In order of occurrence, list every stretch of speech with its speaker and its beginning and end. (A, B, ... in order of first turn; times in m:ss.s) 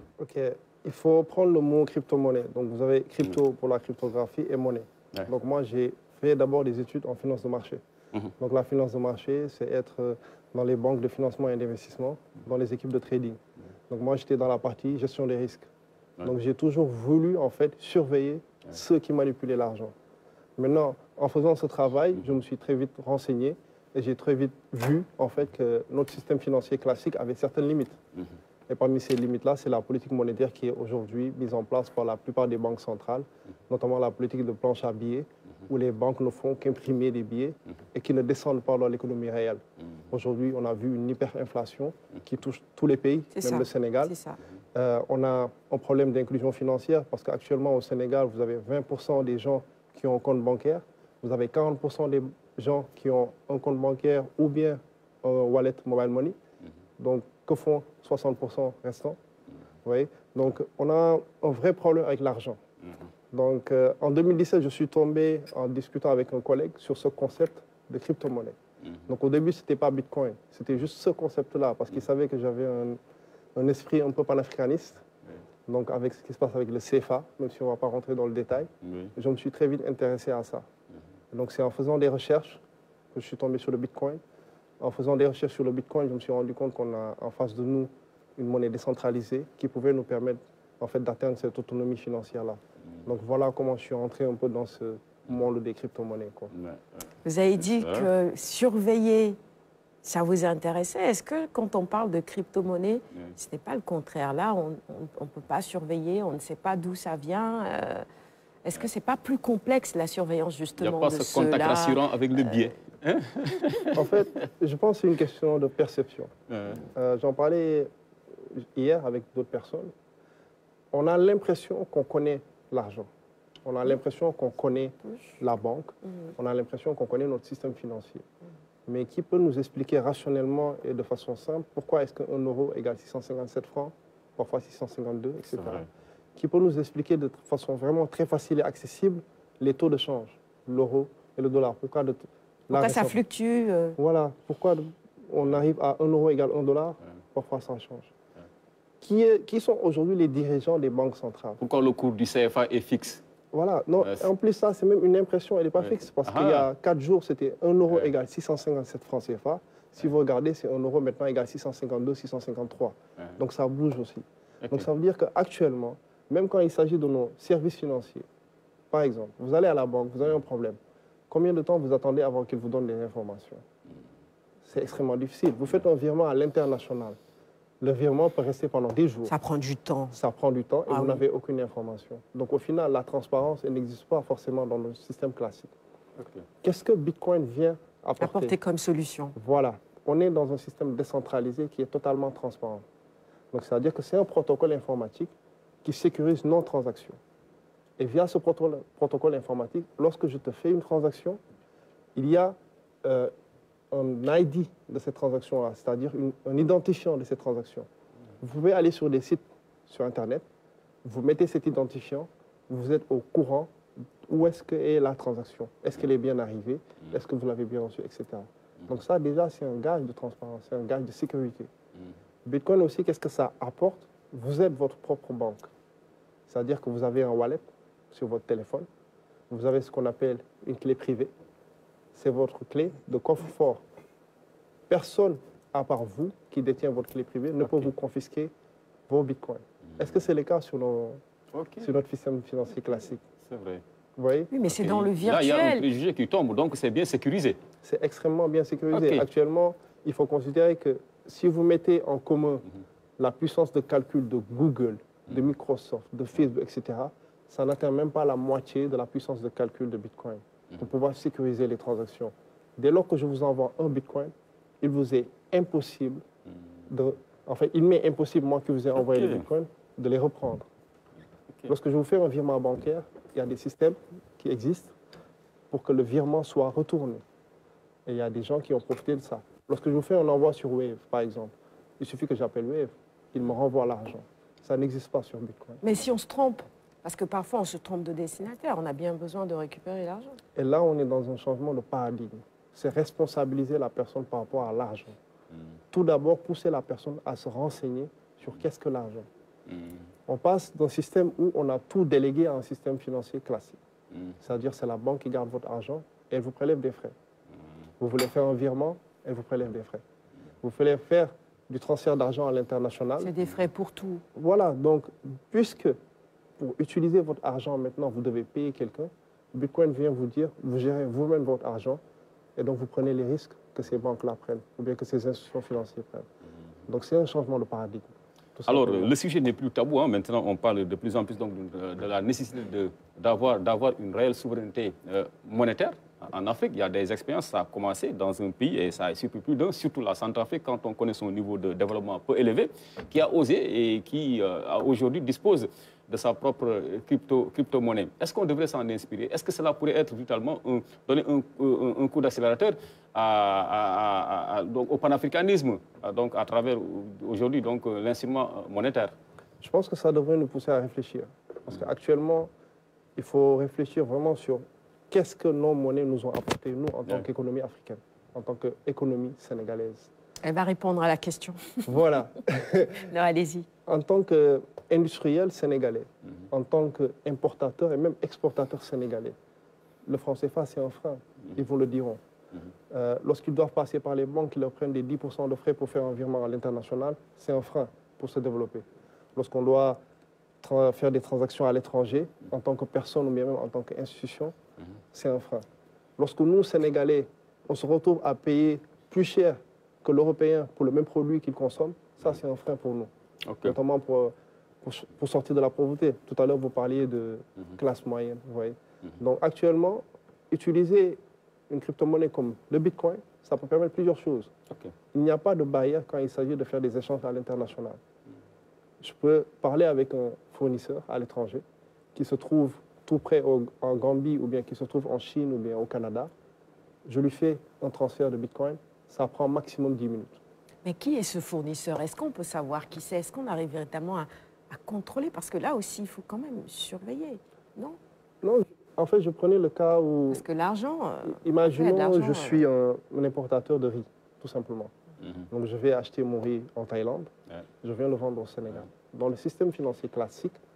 0:00.2-0:07.8 A
0:08.4-0:15.7 A
0:16.2-0:19.9 A
0:20.6-0:28.0 A
0:28.7-0:44.1 A
0:43.4-0:44.4 B
0:44.7-0:56.4 A
0:57.0-0:59.2 A
0:59.8-1:02.6 A
1:03.3-1:13.0 A
1:13.6-1:15.0 A
1:15.7-1:20.6 A
1:18.8-1:19.1 C
1:21.3-1:22.6 A
1:23.1-1:24.2 A
1:24.8-1:36.5 A
1:36.5-1:37.0 C
1:37.2-1:39.4 B
1:37.6-1:38.1 C
1:40.0-1:48.0 B
1:48.6-1:52.7 B
1:50.8-1:54.2 C
1:53.9-1:56.3 A
1:56.5-1:56.8 C
1:56.9-1:57.9 A
1:58.5-1:59.9 A
2:00.9-2:03.1 A
2:03.6-2:08.2 A
2:08.9-2:23.2 A
2:15.6-2:15.9 C
2:22.7-2:24.0 B
2:24.0-2:28.1 A
2:29.0-2:31.6 A
2:31.6-2:33.2 C
2:33.5-2:48.2 A
2:34.0-2:34.3 C
2:35.8-2:36.7 C
2:44.6-2:44.9 C
2:48.9-2:50.8 A
2:51.3-2:53.6 A
2:54.6-2:57.2 A
2:57.8-2:59.3 A
2:59.3-3:00.2 B
3:00.1-3:05.7 A
3:00.9-3:01.2 B
3:06.6-3:08.6 A
3:08.2-3:09.4 B
3:09.4-3:12.8 A
3:13.5-3:15.3 A
3:15.8-3:17.2 A
3:18.0-3:21.4 A
3:22.2-3:23.3 A
3:23.9-3:27.9 A
3:28.4-3:30.4 A
3:31.0-3:33.7 A
3:34.3-3:41.7 A
3:42.4-3:45.7 A
3:46.5-3:48.9 A
3:49.5-3:51.3 A
3:52.2-3:53.8 A
3:54.9-3:58.5 A
3:59.1-4:01.2 A
4:01.5-4:01.9 C
4:01.8-4:03.2 A
4:03.4-4:03.8 C
4:04.2-4:04.5 A
4:04.5-4:05.9 B
4:04.7-4:07.6 C
4:07.8-4:12.7 A
4:08.9-4:09.2 C
4:13.2-4:26.2 A
4:26.9-4:30.6 A
4:29.0-4:29.4 C
4:31.7-4:34.9 A
4:35.7-4:37.2 A
4:38.1-4:45.8 A
4:45.8-4:50.4 B
4:50.6-4:55.2 A
4:55.9-4:59.3 A
5:00.3-5:03.8 A
5:04.4-5:07.1 A
5:08.0-5:10.0 A
5:10.6-5:13.3 A
5:13.2-5:14.2 B
5:14.3-5:16.0 A
5:16.6-5:22.0 A
5:22.6-5:26.3 A
5:26.9-5:29.1 A
5:28.7-5:59.1 C
5:59.6-6:02.5 A
6:03.2-6:10.1 A
6:10.4-6:12.0 B
6:11.9-6:13.1 A
6:13.0-6:13.7 B
6:13.9-6:19.4 A
6:20.0-6:22.2 A
6:22.9-6:28.8 A
6:29.4-6:30.0 A
6:30.6-6:34.5 A
6:35.1-6:35.6 A
6:36.2-6:43.1 A
6:43.5-6:43.8 C
6:43.6-6:54.5 A
6:55.1-6:58.0 A
6:59.0-7:01.6 A
7:02.2-7:06.3 A
7:07.0-7:10.4 A
7:10.8-7:18.0 B
7:18.4-7:20.4 A
7:20.3-7:22.6 B
7:21.3-7:24.9 A
7:25.5-7:27.3 A
7:27.8-7:30.6 A